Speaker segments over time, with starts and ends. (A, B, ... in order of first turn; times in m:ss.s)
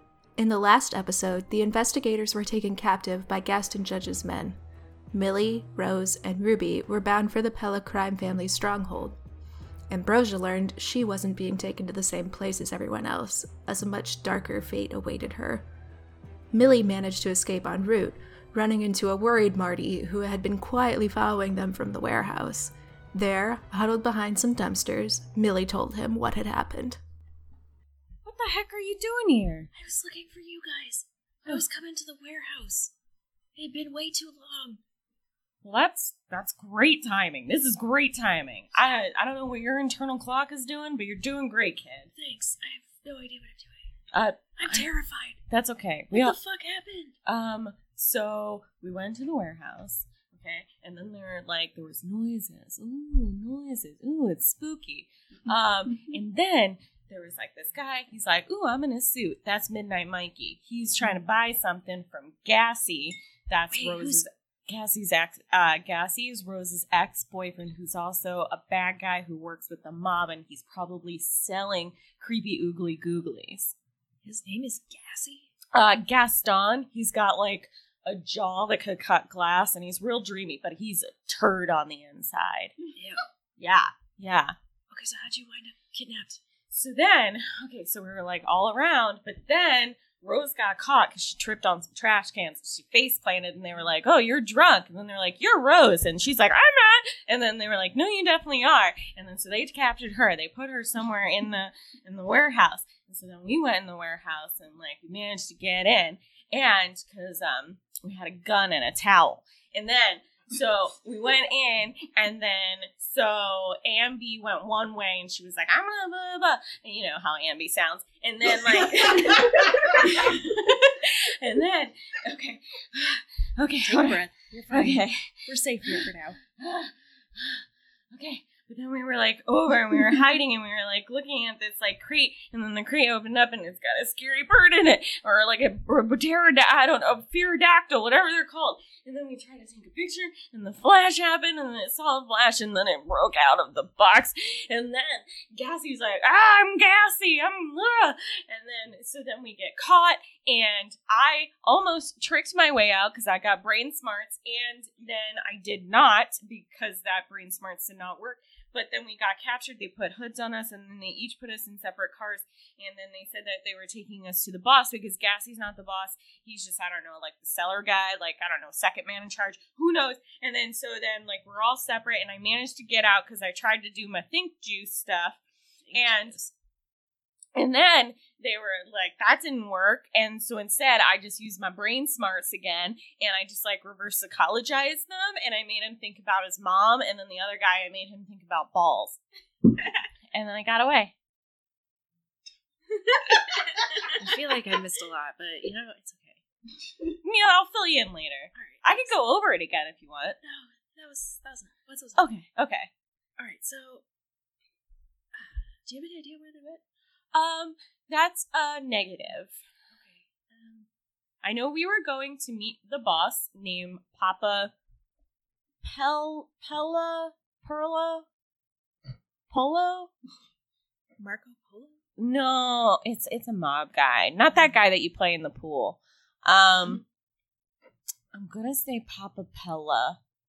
0:00.4-0:04.6 A
0:05.1-0:09.2 A
0:09.9-0:15.6 A
0:16.5-0:27.0 A
0:28.2-0:29.7 B
0:29.7-0:32.9 C
0:33.6-0:34.8 C
0:35.6-0:42.1 B
0:42.2-0:43.8 C
0:44.1-0:44.8 B
0:44.6-0:45.4 C
0:45.5-0:46.4 B
0:46.1-0:47.1 C
0:47.2-1:13.7 B
1:03.7-1:04.3 C
1:14.2-1:15.5 C
1:15.7-1:22.8 B
1:22.9-1:23.2 C
1:23.6-1:24.5 B
1:24.9-1:26.4 C
1:26.7-2:05.3 B
2:03.8-2:06.4 C
2:05.9-2:55.4 B
2:55.9-2:56.5 C
2:55.9-2:56.4 B
2:57.5-3:09.2 B
3:10.3-3:11.1 B
3:14.1-3:16.4 C
3:17.2-3:20.4 B
3:18.5-3:19.1 C
3:20.4-3:22.3 C
3:22.2-3:22.9 B
3:23.4-3:24.0 C
3:25.3-3:26.8 C
3:27.3-3:29.6 B
3:29.9-3:30.9 C
3:31.4-3:34.7 B
3:35.8-3:38.2 B
3:39.5-3:40.1 B
3:41.2-3:42.0 C
3:42.2-3:47.0 B
3:48.3-3:50.2 B